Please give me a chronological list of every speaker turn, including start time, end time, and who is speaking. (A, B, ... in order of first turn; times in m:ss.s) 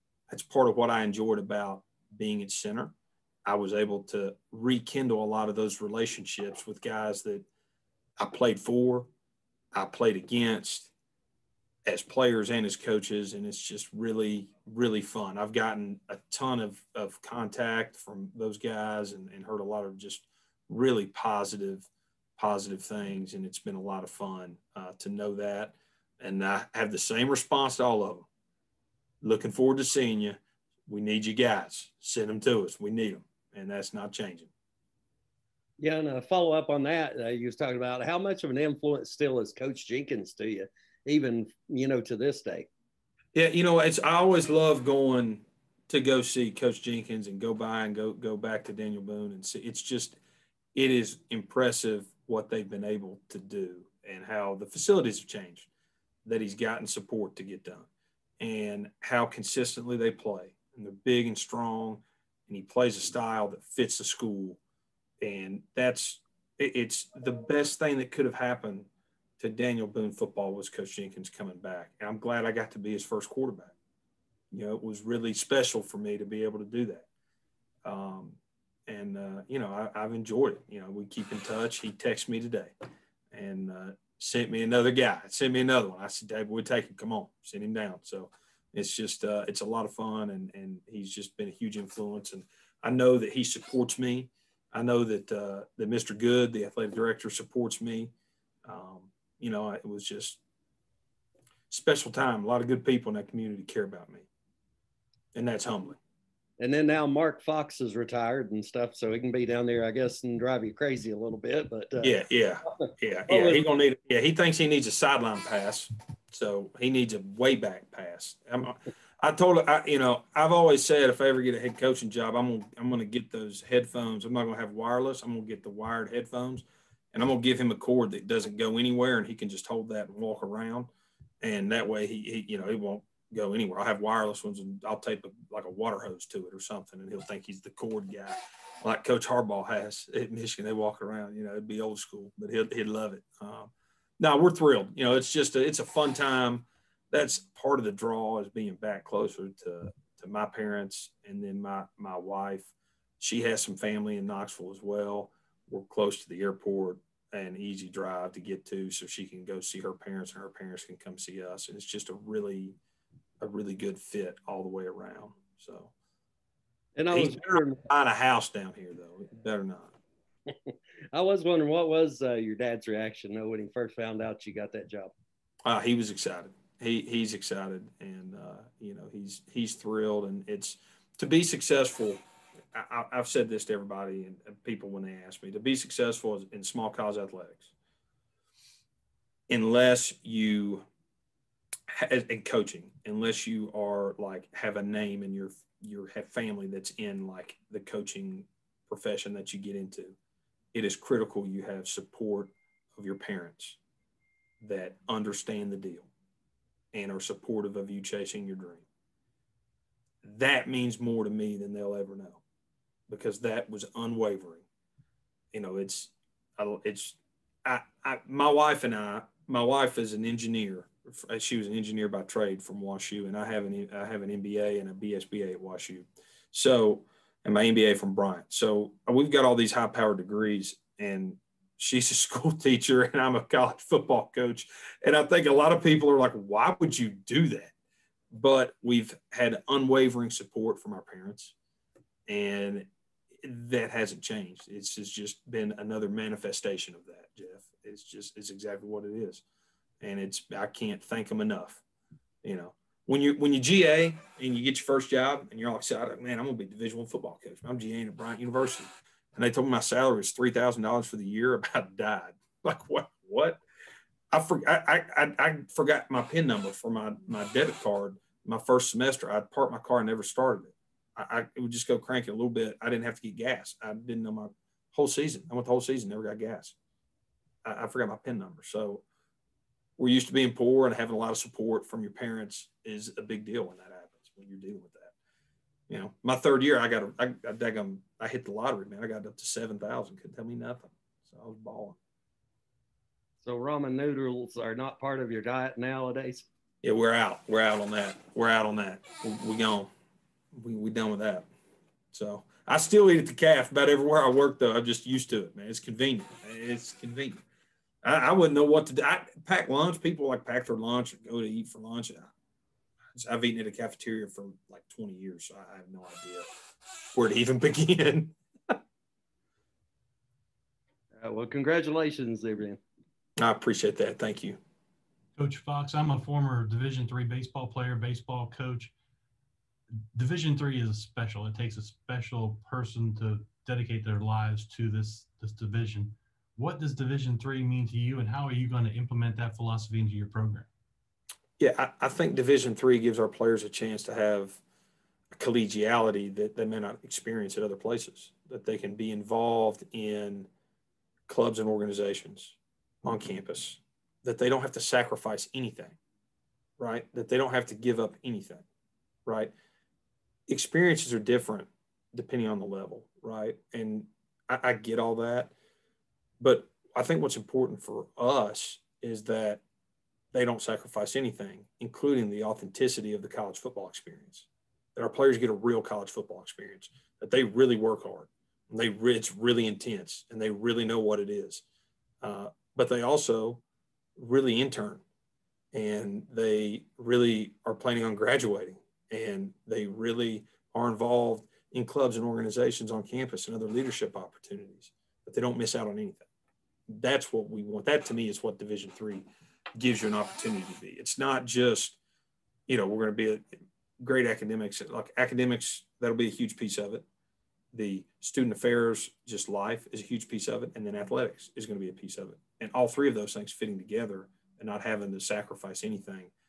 0:00.3-0:02.9 A
0:03.5-0:07.5 A
0:08.2-0:09.1 A
0:09.7-0:10.9 A
0:11.9-0:28.3 A
0:29.2-0:34.5 A
0:35.8-0:42.7 B
0:43.4-0:50.2 A
0:50.7-0:55.7 A
0:56.2-0:57.9 A
0:58.4-1:04.6 A
1:05.2-1:08.9 A
1:09.4-1:13.7 A
1:14.5-1:17.1 A
1:17.8-1:22.7 A
1:23.3-1:38.1 A
1:38.6-1:40.4 A
1:41.7-1:44.3 A
1:45.4-1:46.0 A
1:46.6-1:52.1 B
1:52.0-2:10.9 A
1:53.3-1:53.6 B
2:11.4-2:42.8 A
2:43.4-2:45.9 A
2:47.0-2:47.8 B
2:47.1-2:49.9 A
2:50.5-2:55.1 B
2:55.7-3:07.7 A
3:09.5-3:10.8 A
3:11.9-3:20.2 A
3:20.7-3:23.8 A
3:24.6-3:26.1 A
3:26.9-3:28.8 A
3:30.2-3:32.4 A
3:33.1-3:34.6 A
3:35.5-3:57.7 A
3:58.3-4:01.5 A
4:02.3-4:02.9 A
4:03.4-4:09.4 A
4:10.0-4:11.8 A
4:12.4-4:23.6 A
4:24.3-4:36.8 A
4:37.6-4:39.0 A
4:40.0-4:45.1 A
4:45.9-4:52.0 A
4:53.4-4:56.5 B
4:56.8-4:59.9 A
5:00.5-5:01.5 A
5:02.1-5:07.4 A
5:08.0-5:12.3 A
5:13.1-5:16.5 A
5:17.1-5:18.8 A
5:21.2-5:22.8 B
5:23.4-5:24.6 A
5:25.4-5:28.9 C
5:30.1-5:40.7 C
5:41.6-5:44.6 A
5:45.3-5:50.5 A
5:51.3-5:56.0 A
5:56.8-5:58.6 A
5:59.3-5:59.5 A
6:00.5-6:05.5 A
6:06.4-6:09.6 A
6:10.3-6:21.6 A
6:22.2-6:23.6 A
6:24.2-6:25.0 A
6:25.7-6:36.3 A
6:36.9-6:39.3 A
6:39.8-6:42.0 A
6:42.7-6:47.0 A
6:47.7-6:56.3 A